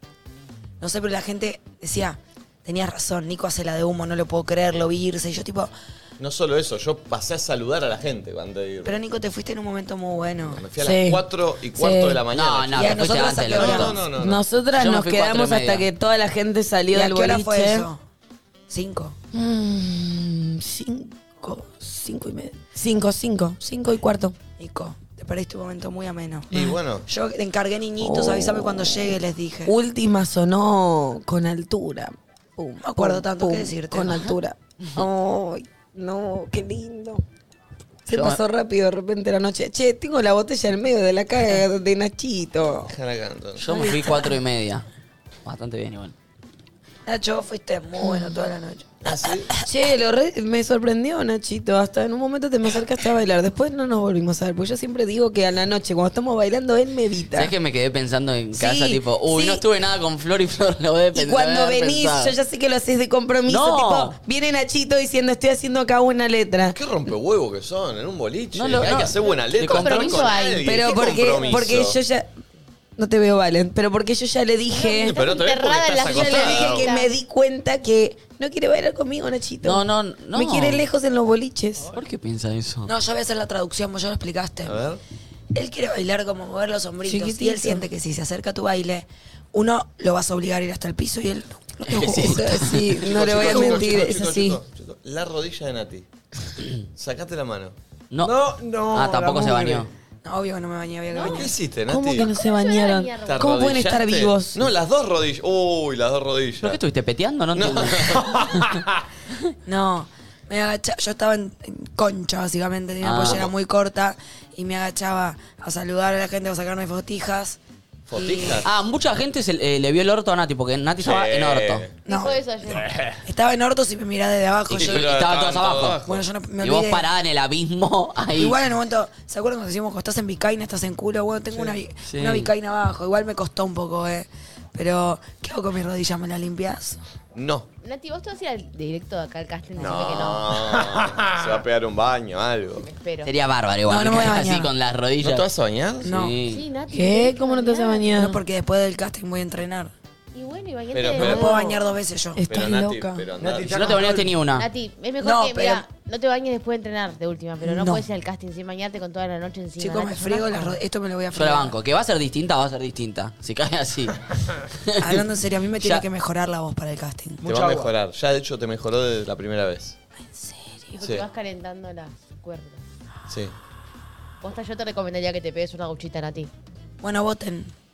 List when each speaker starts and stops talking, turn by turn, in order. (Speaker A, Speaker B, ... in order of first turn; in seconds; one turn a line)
Speaker A: 0.8-5.7
Speaker B: 6.2-9.0
Speaker A: 8.8-10.7
Speaker B: 10.5-14.4
Speaker C: 10.8-12.2
Speaker D: 12.3-14.0
Speaker A: 12.7-14.0
Speaker C: 14.2-17.9
Speaker D: 14.8-15.9
Speaker A: 16.9-18.0
Speaker A: 18.7-19.2
Speaker C: 19.3-24.4
Speaker A: 24.6-29.7
Speaker B: 26.5-27.1
Speaker C: 28.0-29.1
Speaker C: 29.7-37.2
Speaker A: 32.8-34.3
Speaker C: 38.1-42.9
Speaker D: 38.1-38.4
Speaker B: 42.8-43.6
Speaker D: 43.6-44.9
Speaker C: 43.8-44.2
Speaker D: 45.5-46.1
Speaker A: 47.1-48.9
Speaker B: 49.0-49.5
Speaker C: 49.6-57.5
Speaker D: 57.4-62.3
Speaker C: 58.5-59.6
Speaker C: 61.1-66.8
Speaker D: 63.5-64.1
Speaker B: 66.7-72.0
Speaker D: 68.5-70.3
Speaker E: 68.9-70.7
Speaker C: 70.6-72.3
Speaker C: 73.0-75.2
Speaker E: 74.7-77.1
Speaker B: 75.0-76.9
Speaker C: 76.1-81.9
Speaker D: 79.6-80.8
Speaker D: 81.9-82.9
Speaker A: 82.9-84.8
Speaker B: 84.7-85.0
Speaker A: 85.5-94.1
Speaker C: 87.1-87.8
Speaker D: 91.9-93.0
Speaker C: 92.2-94.6
Speaker B: 93.1-96.1
Speaker B: 97.0-97.8
Speaker D: 98.1-98.4
Speaker F: 98.2-99.9
Speaker D: 98.9-99.9
Speaker A: 100.2-101.5
Speaker E: 101.1-101.5
Speaker B: 101.3-102.3
Speaker C: 101.9-104.7
Speaker E: 102.2-103.7
Speaker B: 103.2-106.8
Speaker D: 106.6-108.4
Speaker B: 107.5-108.2
Speaker F: 108.4-108.6
Speaker A: 109.7-117.6
Speaker D: 113.0-113.5
Speaker B: 118.1-118.7
Speaker A: 118.1-118.7
Speaker D: 118.6-121.8
Speaker B: 121.0-122.0
Speaker A: 122.1-125.1
Speaker E: 122.1-122.9
Speaker D: 124.7-126.0
Speaker B: 124.7-126.2
Speaker A: 126.0-127.1
Speaker D: 126.6-128.6
Speaker A: 128.3-137.0
Speaker D: 132.1-132.5
Speaker B: 137.3-137.7
Speaker E: 137.8-140.6
Speaker B: 139.8-142.9
Speaker E: 142.8-143.3
Speaker D: 143.2-145.5
Speaker A: 143.9-144.7
Speaker B: 145.2-146.1
Speaker A: 146.0-146.4
Speaker D: 146.1-146.6
Speaker E: 146.5-148.1
Speaker C: 146.9-148.4
Speaker A: 148.1-149.9
Speaker E: 150.3-151.6
Speaker B: 150.9-151.6
Speaker A: 151.2-153.0
Speaker C: 152.4-153.2
Speaker B: 152.5-153.9
Speaker F: 153.4-154.3
Speaker D: 153.7-154.7
Speaker E: 154.6-160.7
Speaker A: 155.2-155.8
Speaker A: 157.6-158.1
Speaker A: 159.8-161.8
Speaker D: 161.3-164.2
Speaker D: 164.9-165.2
Speaker A: 165.0-167.4
Speaker D: 165.8-166.1
Speaker F: 167.4-167.9
Speaker B: 167.4-170.0
Speaker A: 170.2-171.0
Speaker E: 171.0-172.8
Speaker B: 173.3-173.5
Speaker E: 174.4-176.5
Speaker A: 177.0-177.7